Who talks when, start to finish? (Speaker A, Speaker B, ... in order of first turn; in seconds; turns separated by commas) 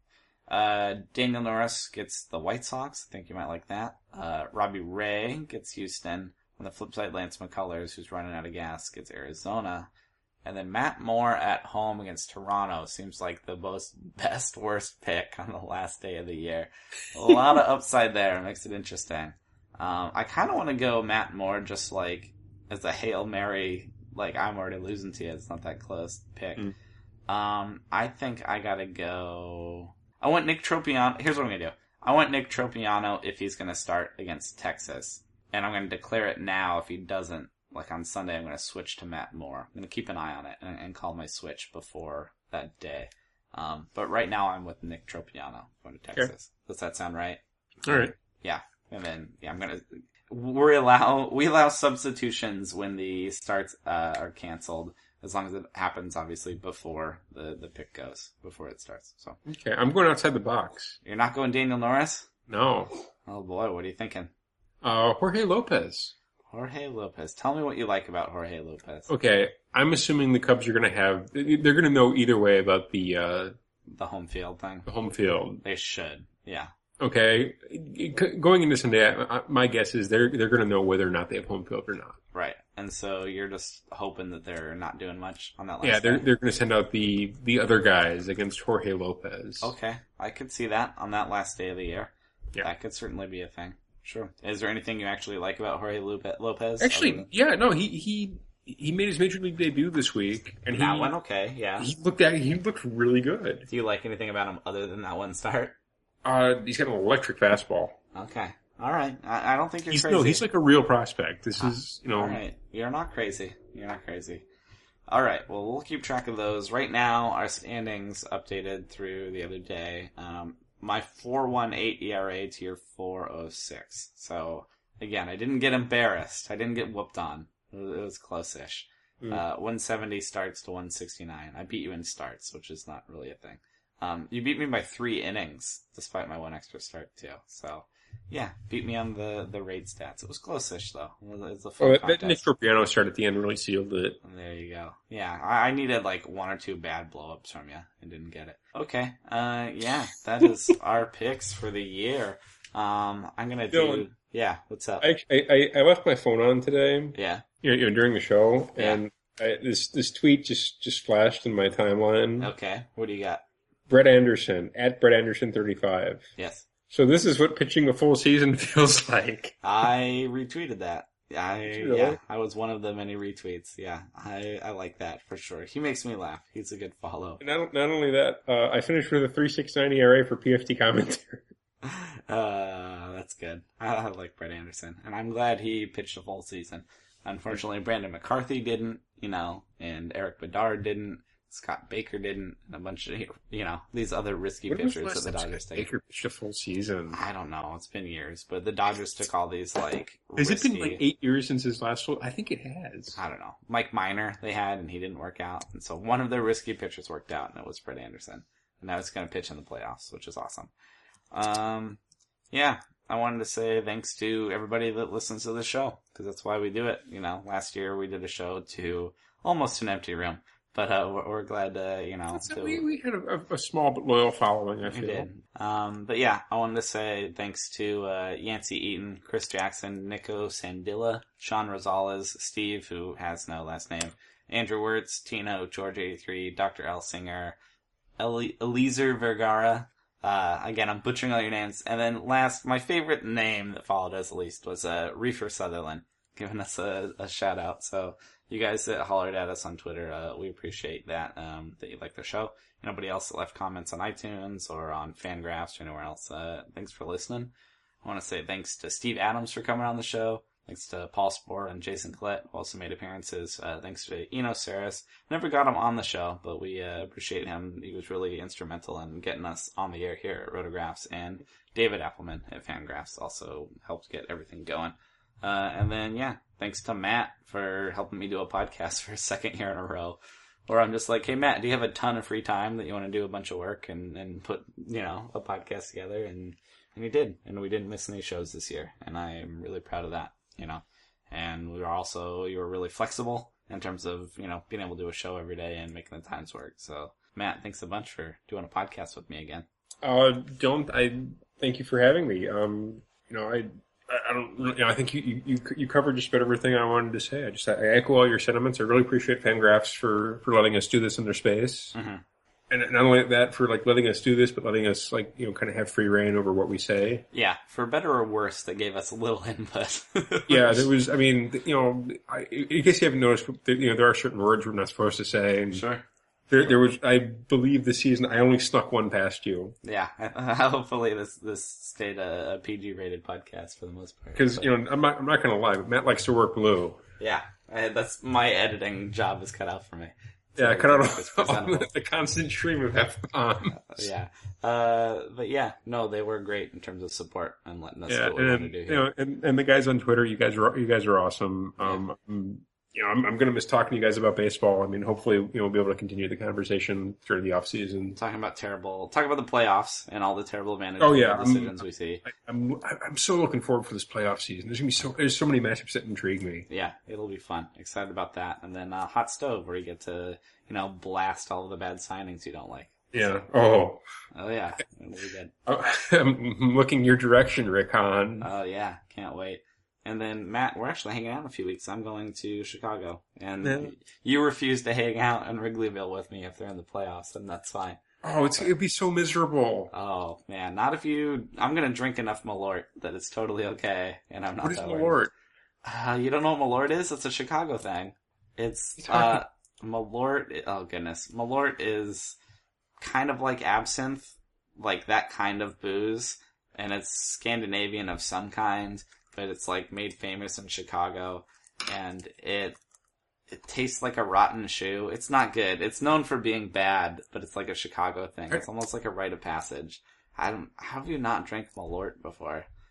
Speaker A: 0.5-9.9, Speaker A: 10.4-26.7, Speaker A: 27.3-59.4, Speaker B: 47.9-48.1, Speaker B: 59.5-61.0, Speaker A: 61.0-62.3, Speaker B: 62.5-62.9, Speaker A: 63.3-64.3, Speaker B: 64.8-66.1, Speaker A: 66.5-69.1, Speaker B: 69.1-73.5, Speaker A: 73.8-74.9, Speaker B: 74.9-75.6, Speaker A: 75.6-76.7, Speaker B: 77.0-82.2, Speaker A: 82.3-86.3, Speaker B: 85.8-89.7, Speaker A: 89.6-97.3, Speaker B: 96.8-101.1, Speaker A: 100.7-101.9, Speaker B: 101.8-103.7, Speaker A: 103.7-105.8, Speaker B: 106.2-108.0, Speaker A: 108.1-110.4, Speaker B: 109.9-112.4, Speaker A: 111.6-114.4, Speaker A: 115.1-142.4, Speaker B: 141.8-144.2, Speaker A: 144.2-155.1, Speaker B: 153.7-154.1, Speaker B: 155.0-162.5, Speaker A: 157.1-157.4, Speaker A: 158.8-159.0, Speaker A: 162.4-163.4, Speaker B: 163.9-166.3, Speaker A: 166.4-166.7, Speaker B: 166.9-169.6, Speaker A: 169.6-177.4, Speaker B: 171.7-172.2, Speaker B: 177.4-181.4, Speaker A: 181.8-195.9, Speaker B: 194.7-197.2, Speaker A: 197.1-201.0, Speaker B: 200.4-203.2, Speaker A: 203.1-210.7, Speaker A: 211.3-212.0, Speaker A: 212.5-222.8, Speaker B: 222.3-225.3, Speaker A: 224.8-237.6, Speaker A: 238.2-299.6, Speaker B: 300.0-311.9, Speaker A: 311.9-312.2, Speaker B: 312.7-317.2, Speaker A: 317.3-320.8, Speaker B: 320.5-325.8, Speaker A: 325.7-326.0, Speaker B: 326.5-329.8, Speaker A: 329.8-334.7, Speaker B: 334.3-337.0, Speaker A: 337.2-341.9, Speaker B: 340.6-344.1, Speaker A: 343.7-349.1, Speaker B: 348.1-358.2, Speaker A: 358.1-362.2, Speaker B: 361.0-366.7, Speaker A: 366.7-372.9, Speaker B: 373.1-374.0, Speaker A: 374.3-375.5, Speaker B: 375.7-378.5, Speaker A: 378.4-388.0, Speaker B: 383.6-383.9, Speaker B: 388.2-389.9, Speaker A: 389.9-395.2, Speaker B: 394.6-395.3, Speaker A: 395.8-402.4, Speaker B: 399.0-399.4, Speaker A: 403.0-412.8, Speaker A: 413.5-422.7